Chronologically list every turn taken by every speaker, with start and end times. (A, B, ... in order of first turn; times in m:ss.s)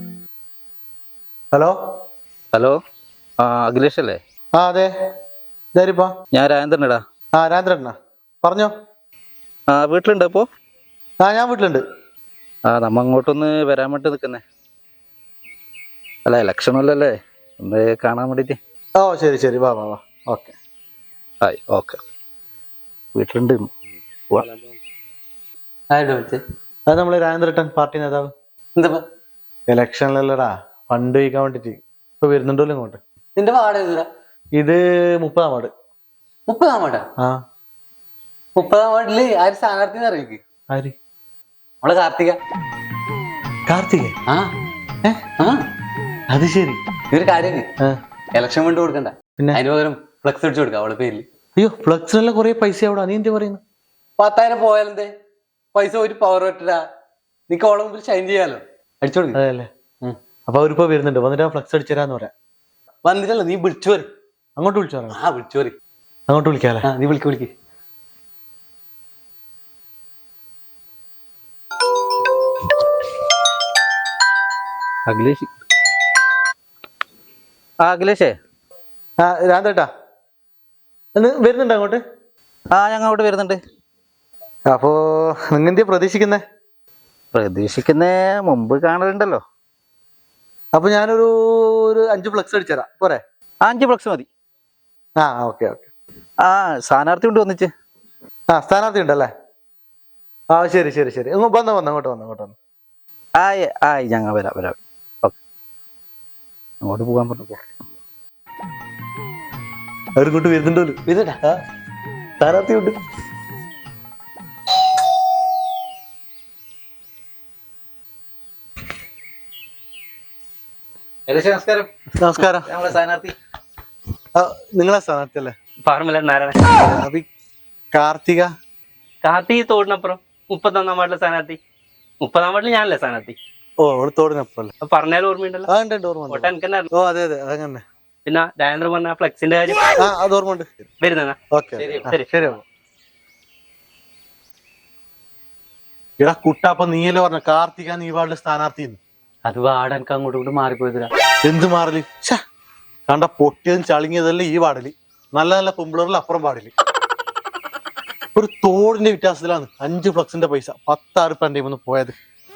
0:03.4-0:04.2 A
0:04.6-0:04.9 B
0:05.8-0:06.1 B
0:06.3-0:07.0 A
0:07.4-0:08.7 B
0:09.7-0:10.4 A
0:11.2-0:11.8 B
0:12.7-0:14.4 A
0:16.3-0:18.6 A
0:19.0-0:20.6 B
0:21.4-0:22.0 A
0:23.1-0:23.7 A
0:25.9-0:26.4 C
0:26.9-0:28.3 B
0:28.8-0:29.0 C
0:29.7-0:33.0 B
0:33.4-0:34.1 C
0:34.6-0:35.7 B
0:36.5-0:37.1 C
0:38.6-0:40.4 C
0:40.7-0:41.0 B
0:41.8-0:42.4 C
0:43.7-0:44.1 B
0:45.4-0:45.6 C
0:46.3-0:46.8 B
0:47.1-0:47.7 C
0:48.4-0:51.2 C
0:51.6-0:53.6 B
0:54.2-0:55.1 C
0:55.8-0:56.8 C
0:57.5-0:59.4 C
0:59.3-0:59.7 B
1:00.5-1:02.3 B
1:03.0-1:04.1 C
1:04.6-1:05.2 B
1:05.1-1:05.8 C
1:06.3-1:06.9 B
1:06.8-1:07.5 C
1:15.1-1:15.5 A
1:17.8-1:18.4 A
1:19.2-1:19.9 B
1:21.2-1:22.0 B
1:22.7-1:23.6 A
1:24.7-1:26.4 B
1:27.3-1:29.4 A
1:30.7-1:33.2 B
1:33.6-1:34.3 A
1:35.2-1:35.9 B
1:36.4-1:37.7 A
1:38.5-1:39.3 B
1:40.5-1:42.6 B
1:43.4-1:45.4 A
1:46.8-1:47.6 A
1:50.2-1:51.6 B
1:51.1-1:51.4 C
1:52.4-1:53.0 B
2:01.3-2:01.9 A
2:02.2-2:02.7 B
2:02.6-2:03.3 A
2:04.4-2:05.5 B
2:05.8-2:06.7 D
2:06.8-2:07.3 B
2:07.9-2:08.5 B
2:09.2-2:11.6 D
2:12.2-2:13.4 D
2:13.8-2:14.7 B
2:14.8-2:15.7 D
2:15.7-2:17.8 B
2:16.3-2:16.9 D
2:18.3-2:20.0 D
2:20.0-2:20.8 B
2:21.0-2:21.4 D
2:21.5-2:22.6 B
2:21.8-2:22.1 C
2:26.2-2:29.0 B
2:29.4-2:31.1 C
2:31.4-2:32.4 B
2:33.1-2:36.7 B
2:38.4-2:42.1 B